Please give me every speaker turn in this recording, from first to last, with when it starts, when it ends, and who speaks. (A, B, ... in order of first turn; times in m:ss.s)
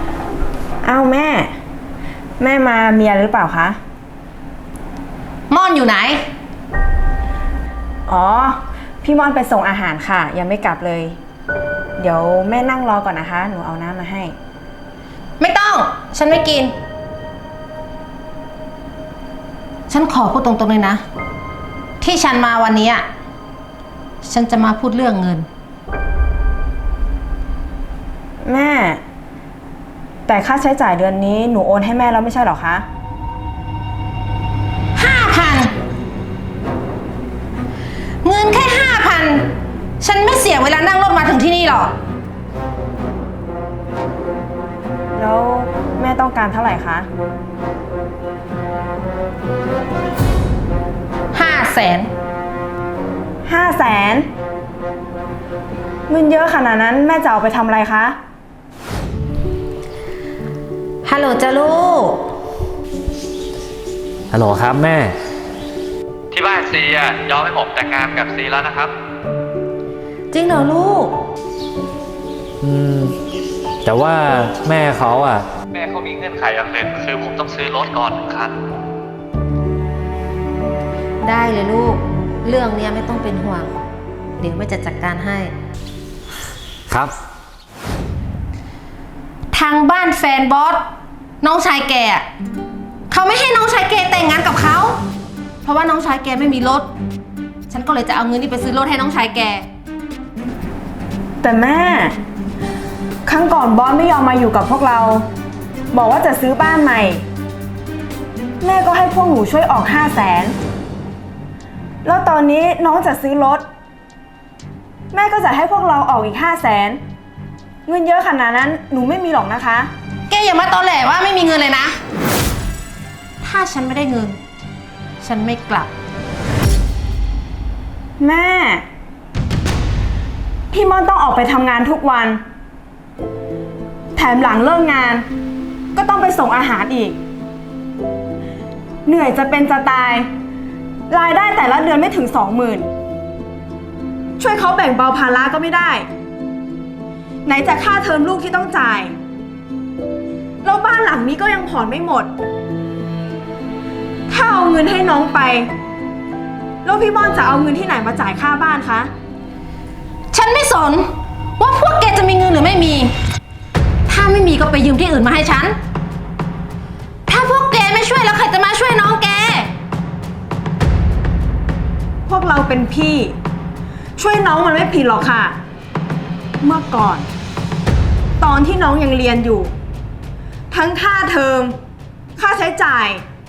0:00.8-0:01.5 A
0:02.4-0:03.8 A
0:05.5-0:06.3 B
0:08.1-0:11.2 A
0:12.0-0:14.3 A
0:15.4-0:16.7 B
0:19.9-0:21.0 B
0:22.0-0:23.0 B
0:24.2-0:25.5 B
0:28.4-0:29.0 A
0:30.3-0:32.9 A
0:35.0-0:35.7 B
0:38.2-0:39.5 B
0:40.0-0:41.9 B
0:45.2-0:47.1 A
0:51.3-0:52.1 B
0:53.4-0:54.3 A
0:56.1-0:58.2 A
1:01.0-1:02.3 B
1:04.3-1:05.1 C
1:06.3-1:08.9 D
1:10.3-1:11.2 B
1:12.6-1:13.2 C
1:13.8-1:15.4 C
1:15.7-1:18.6 D
1:21.2-1:23.8 B
1:24.4-1:25.5 B
1:29.5-1:30.9 B
1:31.4-1:32.3 B
1:33.1-1:35.0 B
1:35.6-1:36.9 B
1:37.7-1:39.7 B
1:41.4-1:42.2 A
1:43.3-1:45.3 A
1:45.9-1:47.2 A
1:48.6-1:50.6 A
1:52.0-1:53.6 A
1:55.1-1:57.0 A
1:57.9-1:59.9 A
2:00.3-2:02.0 B
2:03.4-2:04.4 B
2:05.2-2:05.9 B
2:08.2-2:08.8 A
2:10.7-2:12.4 A
2:14.2-2:15.2 A
2:15.9-2:17.2 A
2:19.1-2:20.3 A
2:21.1-2:22.9 A
2:24.4-2:26.1 A
2:27.4-2:29.1 A
2:30.6-2:32.3 A
2:34.3-2:35.7 A
2:36.8-2:39.1 A
2:40.3-2:43.1 B
2:44.1-2:45.8 B
2:47.3-2:49.7 B
2:52.3-2:53.4 A
2:54.2-2:55.6 A
2:56.6-2:57.3 A
2:58.4-2:59.7 A
3:00.7-3:01.8 A
3:02.4-3:03.2 A